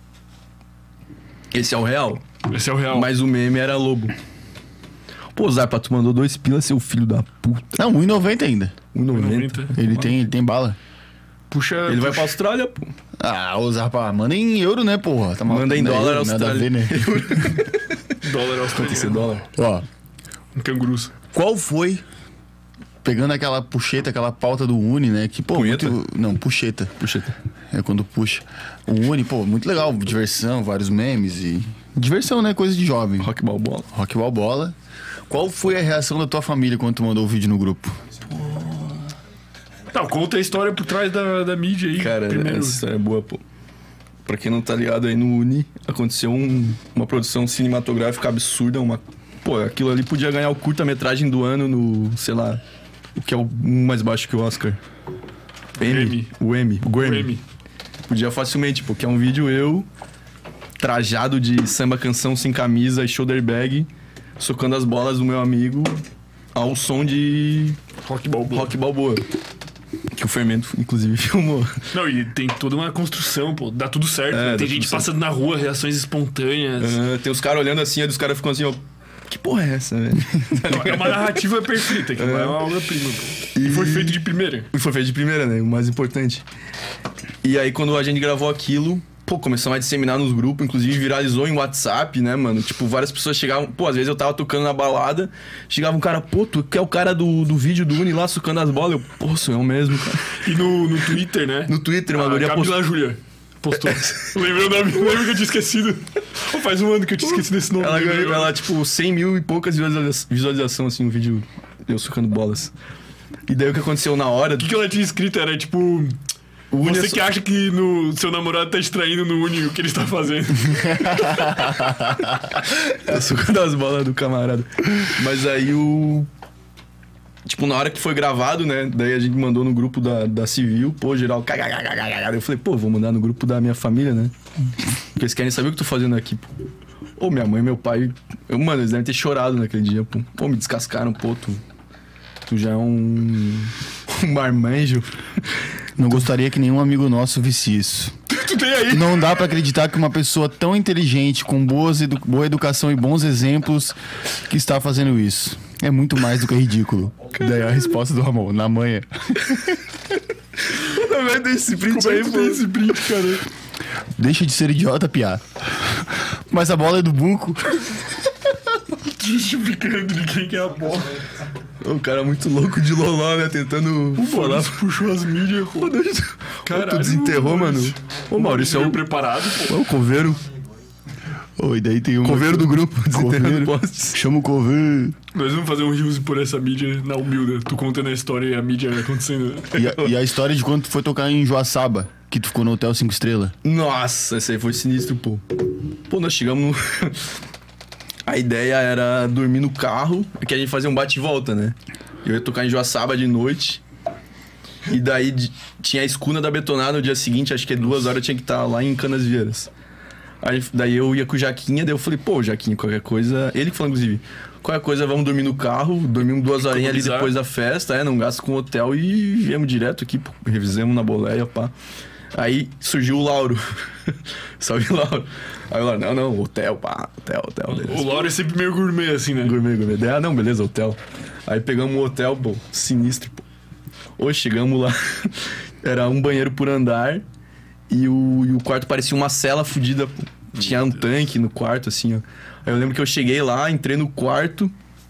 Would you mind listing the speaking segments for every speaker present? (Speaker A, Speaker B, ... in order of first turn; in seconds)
Speaker A: 1.5-2.2, 2.9-4.2, 5.3-7.8, 8.9-10.0, 11.9-12.9, 15.5-18.2, 18.7-19.4, 25.5-26.0, 27.0-27.4, 33.2-33.9, 38.3-39.1, 42.0-43.4, 44.3-52.6, 53.2-54.8, 55.8-57.3, 58.1-59.9, 60.8-66.0, 66.5-67.8, 68.5-69.2, 70.1-71.8, 74.3-75.1, 76.8-82.6, 83.5-84.2, 84.7-86.5, 87.4-100.4, 101.7-102.8, 103.8-104.3, 107.2-112.7, 113.5-114.7, 116.7-117.3, 122.9-126.3, 127.5-134.3, 135.2-136.5, 137.2-141.6, 142.5-145.5, 157.4-157.7, 160.6-162.7, 171.8-174.8, 175.8-179.0, 179.7-180.4, 182.2-184.2, 189.8-190.1, 193.6-197.3, 198.3-203.8, 204.9-209.7, 210.4-221.7, 222.3-228.3, 229.4-233.4, 234.2-237.2, 237.9-244.7
Speaker B: 2.5-3.1, 9.1-9.8, 11.5-12.3, 18.2-19.4, 20.6-21.1, 39.9-42.8, 55.8-56.3, 56.9-57.4, 68.0-68.7, 71.9-77.0, 80.6-84.7, 100.3-108.6, 114.6-116.2, 116.8-122.0, 148.3-149.4, 161.9-163.4, 169.0-171.2, 174.2-175.9, 176.7-179.9, 185.3-189.7, 216.6-217.3, 227.7-229.6, 240.6-241.0
Speaker C: 7.8-8.8, 9.8-10.8, 13.2-17.3, 19.5-19.9, 21.3-22.0, 23.0-26.9, 27.7-33.3, 33.9-34.8, 35.3-38.0, 121.6-122.3, 146.0-148.2, 148.9-159.8, 164.2-168.2, 181.6-185.2, 189.7-193.5